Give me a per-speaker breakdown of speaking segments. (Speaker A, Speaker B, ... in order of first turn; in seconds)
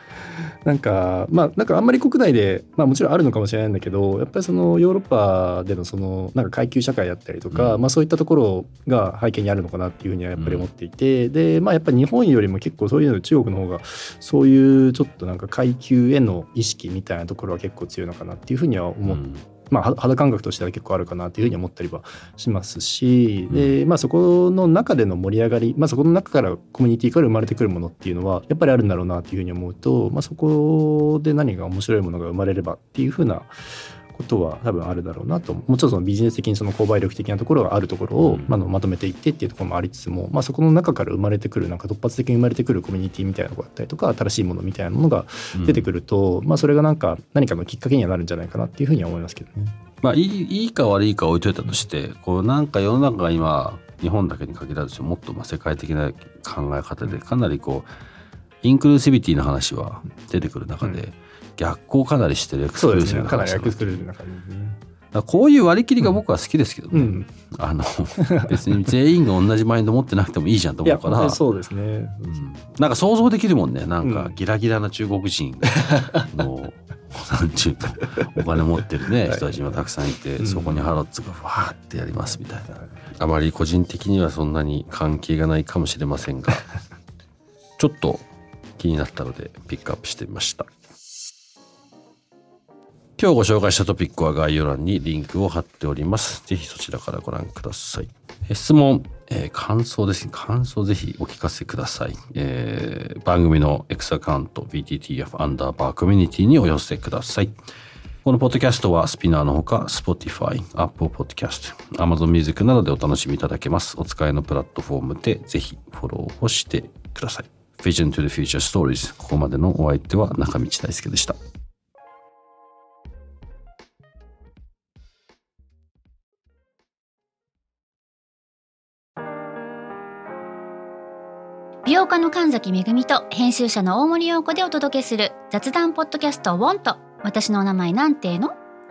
Speaker A: 0.7-33.5, 34.1-49.7, 62.8-64.8, 66.9-67.3, 68.2-68.6, 70.8-72.4, 74.0-74.3
Speaker B: 7.5-7.8, 10.4-10.7, 19.1-19.4, 23.5-23.8, 38.2-38.5, 45.5-45.9, 50.0-57.9, 58.6-64.1, 65.1-71.4, 72.3-86.7, 87.8-88.2, 88.8-90.7, 93.2-107.6, 108.2-121.4
Speaker C: 131.8-138.6